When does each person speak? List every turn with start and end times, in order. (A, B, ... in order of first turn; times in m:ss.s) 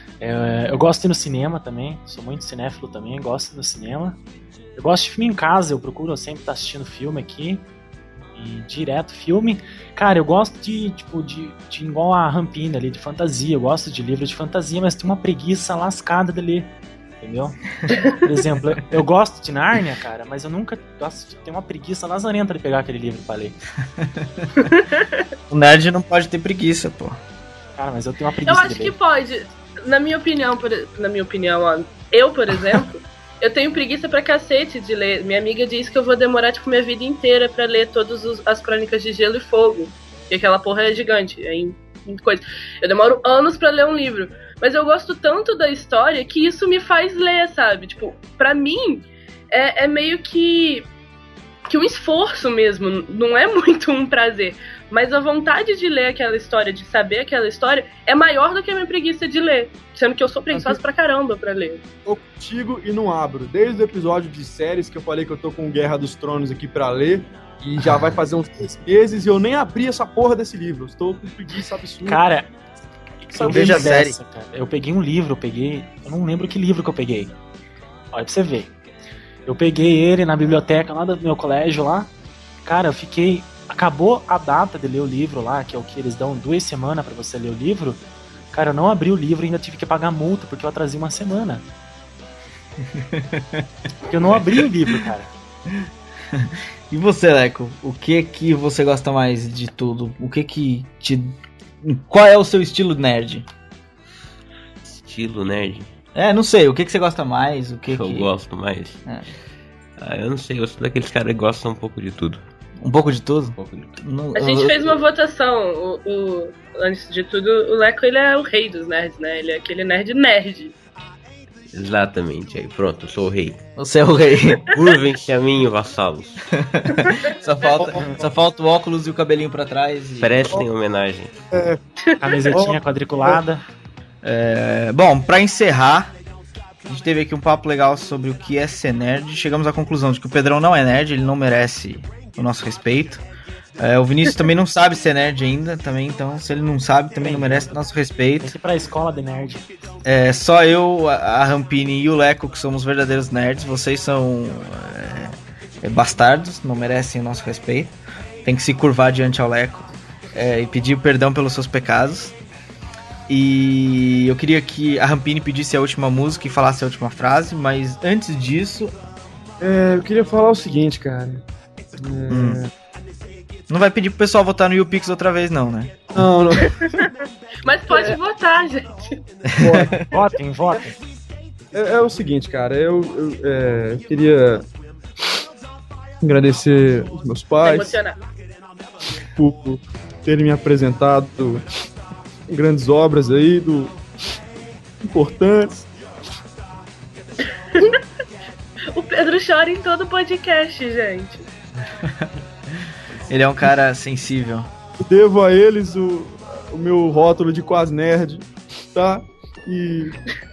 0:00.2-0:04.2 A
0:04.8-0:07.6 A
0:08.4-0:23.6 A
0:24.0-0:24.5 B
0:24.6-0:25.3 C
0:25.5-0:27.2 B
0:27.8-0:29.0 A
0:28.4-0:50.9 C
0:51.7-1:01.8 C
1:00.5-1:00.8 D
1:02.1-1:12.2 D
1:12.1-1:12.5 A
1:13.2-1:17.3 A
1:13.4-1:14.0 D
1:13.4-1:14.2 B
1:18.1-1:18.7 A
1:19.5-1:22.1 A
1:22.7-1:31.6 A
1:32.8-1:33.7 B
1:34.1-1:35.3 A
1:34.3-1:35.1 B
1:35.7-1:43.5 B
1:44.8-1:45.9 E
1:46.2-1:48.3 B
1:47.9-1:49.0 E
1:50.0-1:52.4 E
1:52.8-1:55.0 B
1:53.6-1:54.0 E
1:54.4-2:00.7 C
2:01.7-2:03.6 E
2:03.8-2:04.6 B
2:04.7-2:06.4 E
2:06.6-2:10.6 B
2:07.8-2:08.3 D
2:10.2-2:11.3 E
2:11.5-2:11.8 D
2:12.0-2:12.5 C
2:12.2-2:13.6 A
2:12.5-2:13.4 D
2:14.2-2:16.1 B
2:16.8-2:23.2 B
2:23.8-2:28.6 B
2:27.2-2:27.8 A
2:28.4-2:29.7 A
2:30.0-2:42.4 B
2:43.3-2:49.0 B
2:49.6-2:51.4 D
2:52.0-2:52.7 D
2:52.3-2:52.6 B
2:53.7-2:56.2 B
2:56.2-2:56.9 D
2:56.8-2:57.1 C
2:57.6-2:59.2 C
2:57.9-2:58.2 D
2:59.5-3:00.0 B
2:59.6-3:00.1 D
3:00.0-3:01.0 A
3:01.7-3:04.7 D
3:06.2-3:08.0 D
3:07.6-3:08.2 C
3:09.4-3:11.6 D
3:12.5-3:13.9 D
3:15.0-3:15.9 D
3:18.9-3:21.5 C
3:22.0-3:22.3 B
3:23.2-3:24.7 B
3:25.0-3:30.2 D